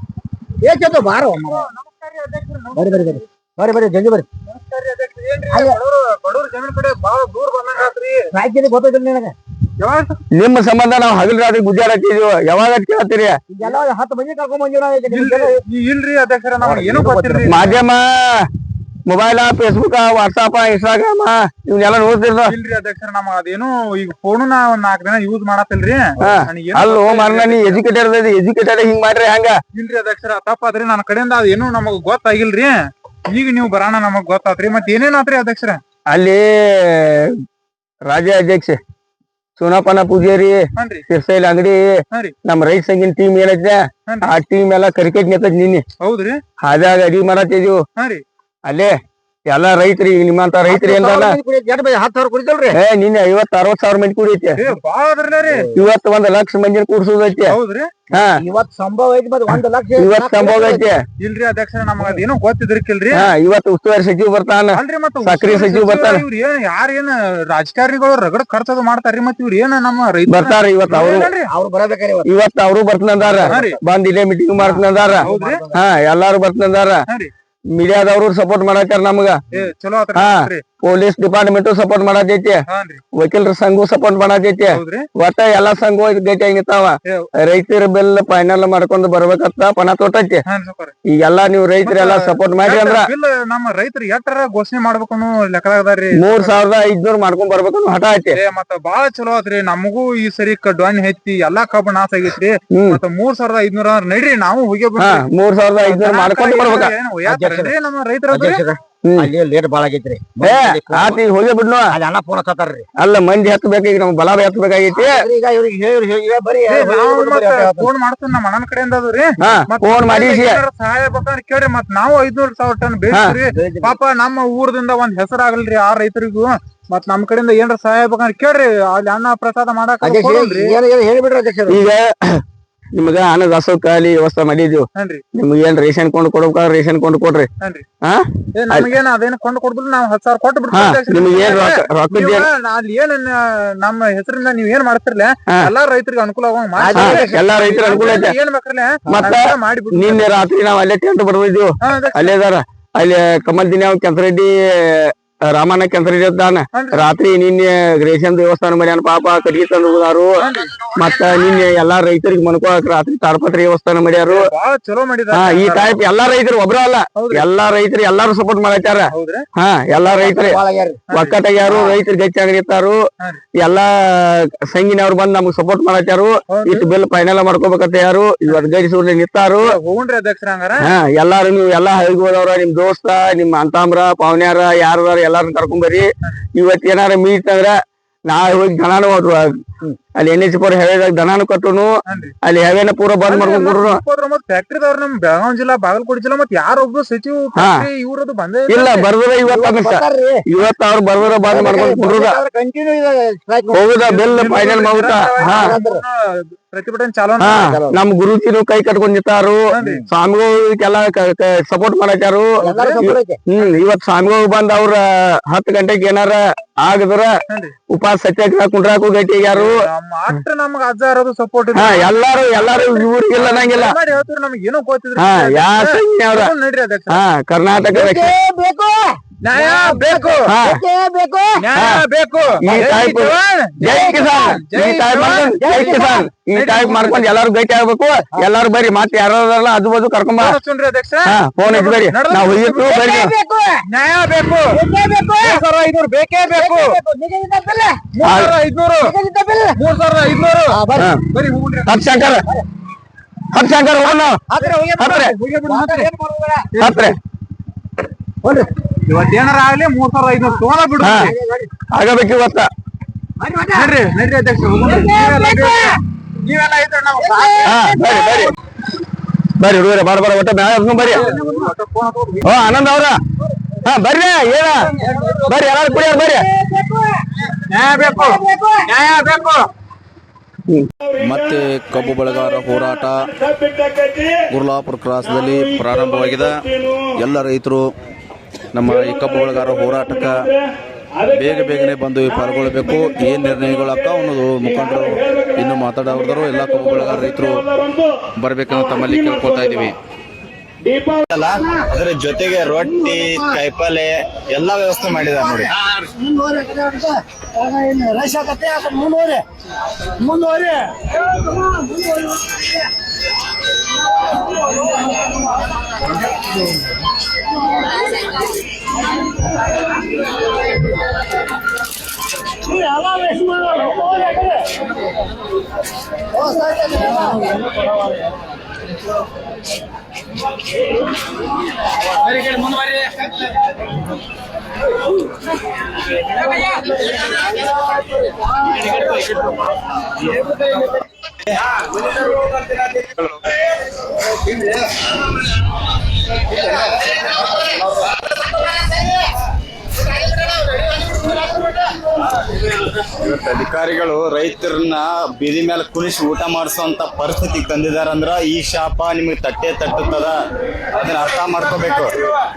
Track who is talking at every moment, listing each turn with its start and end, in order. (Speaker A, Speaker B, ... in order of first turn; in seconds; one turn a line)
Speaker A: 0.6-1.6
Speaker B: 1.4-3.2
Speaker A: 2.7-4.3
Speaker B: 4.5-8.2
Speaker A: 5.5-5.8
Speaker A: 8.3-9.3
Speaker B: 9.8-10.2
Speaker C: 10.3-13.4
Speaker A: 13.5-15.6
Speaker B: 15.1-17.8
Speaker A: 16.6-17.6
Speaker C: 17.5-18.5
Speaker C: 19.1-22.5
Speaker B: 22.5-27.8
Speaker C: 26.2-29.6
Speaker B: 29.7-32.8
Speaker B: 33.3-35.8
Speaker C: 36.1-37.3
Speaker C: 38.1-38.8
Speaker C: 39.6-45.8
Speaker B: 40.8-41.0
Speaker B: 44.1-44.3
Speaker B: 46.0-46.4
Speaker C: 46.6-47.8
Speaker B: 48.0-48.2
Speaker C: 48.6-48.9
Speaker C: 49.5-51.4
Speaker A: 50.6-52.8
Speaker C: 52.7-54.6
Speaker B: 54.6-55.6
Speaker C: 55.7-57.6
Speaker B: 57.5-57.9
Speaker A: 58.3-60.8
Speaker C: 60.0-61.0
Speaker B: 61.2-63.3
Speaker C: 63.1-66.2
Speaker B: 64.7-71.5
Speaker C: 70.3-71.3
Speaker A: 71.5-72.3
Speaker C: 72.2-77.0
Speaker A: 73.2-73.7
Speaker B: 73.4-73.8
Speaker A: 74.6-75.8
Speaker B: 75.2-75.6
Speaker C: 77.7-79.4
Speaker B: 79.5-80.6
Speaker C: 80.1-90.4
Speaker B: 82.7-83.0
Speaker B: 84.7-85.0
Speaker B: 90.5-90.9
Speaker C: 91.0-93.1
Speaker B: 91.8-96.5
Speaker C: 96.2-98.4
Speaker B: 98.3-105.2
Speaker C: 102.7-103.0
Speaker C: 105.0-106.9
Speaker B: 105.8-108.6
Speaker A: 107.2-107.7
Speaker A: 108.3-111.2
Speaker C: 110.4-111.9
Speaker A: 111.9-112.8
Speaker C: 113.0-115.2
Speaker A: 114.9-117.9
Speaker B: 116.7-130.8
Speaker C: 119.4-120.6
Speaker A: 123.5-123.9
Speaker A: 130.0-131.8
Speaker C: 131.7-132.4
Speaker C: 132.9-137.5
Speaker B: 134.9-135.2
Speaker C: 138.0-138.9
Speaker B: 138.5-150.4
Speaker C: 140.7-142.5
Speaker A: 146.8-147.3
Speaker C: 146.9-148.3
Speaker C: 149.1-160.4
Speaker B: 151.8-152.3
Speaker B: 156.7-157.0
Speaker B: 160.4-160.7
Speaker C: 161.0-164.4
Speaker B: 164.3-166.0
Speaker C: 165.3-170.6
Speaker B: 167.2-167.4
Speaker B: 169.1-169.4
Speaker A: 170.0-171.0
Speaker B: 171.1-171.4
Speaker C: 171.1-173.0
Speaker A: 171.7-171.9
Speaker C: 173.6-179.7
Speaker B: 176.5-176.8
Speaker B: 179.7-180.9
Speaker C: 180.8-187.7
Speaker C: 188.3-189.5
Speaker C: 190.2-194.0
Speaker B: 192.1-192.3
Speaker B: 193.3-199.1
Speaker C: 197.6-197.9
Speaker C: 198.7-202.4
Speaker A: 199.4-200.4
Speaker A: 201.2-203.9
Speaker C: 203.7-205.7
Speaker B: 204.1-207.6
Speaker A: 205.4-206.0
Speaker C: 207.4-217.3
Speaker A: 207.5-208.0
Speaker B: 209.7-210.0
Speaker A: 212.6-213.4
Speaker B: 217.5-217.7
Speaker C: 217.9-219.8
Speaker B: 219.4-227.2
Speaker C: 221.7-223.9
Speaker C: 225.2-226.5
Speaker C: 227.1-228.3
Speaker A: 227.9-231.6
Speaker B: 229.4-230.5
Speaker C: 230.5-230.8
Speaker B: 231.6-237.3
Speaker C: 231.7-232.0
Speaker C: 232.6-240.6
Speaker A: 233.8-234.5
Speaker A: 235.5-236.2
Speaker B: 240.4-243.0
Speaker C: 241.2-243.3
Speaker A: 242.9-243.8
Speaker B: 243.9-244.8
Speaker A: 244.7-245.6
Speaker B: 245.4-246.9
Speaker A: 246.4-248.0
Speaker B: 248.1-249.1
Speaker C: 248.2-248.5
Speaker A: 249.0-249.8
Speaker B: 249.8-252.0
Speaker A: 250.7-251.1
Speaker C: 251.8-252.4
Speaker C: 253.5-254.4
Speaker A: 254.0-256.7
Speaker C: 255.0-255.3
Speaker B: 255.5-256.1
Speaker B: 256.7-257.1
Speaker C: 256.8-257.1
Speaker B: 259.1-261.3
Speaker C: 261.0-261.3
Speaker A: 261.1-261.7
Speaker C: 261.9-262.7
Speaker A: 263.4-263.9
Speaker B: 263.7-267.8
Speaker A: 264.8-266.0
Speaker A: 267.2-268.5
Speaker C: 267.6-268.5
Speaker C: 269.6-271.2
Speaker B: 271.0-272.5
Speaker A: 271.0-271.7
Speaker C: 272.4-273.2
Speaker C: 273.8-274.9
Speaker B: 275.0-275.4
Speaker A: 275.1-277.2
Speaker C: 275.4-276.5
Speaker B: 277.7-279.6
Speaker A: 278.0-278.9
Speaker D: 281.2-283.4
Speaker D: 284.5-287.9
Speaker D: 288.7-290.5
Speaker D: 291.3-299.9
Speaker E: 301.3-305.7
Speaker A: 306.6-307.0
Speaker E: 347.4-348.1
Speaker E: 352.9-360.4
Speaker E: 361.0-362.2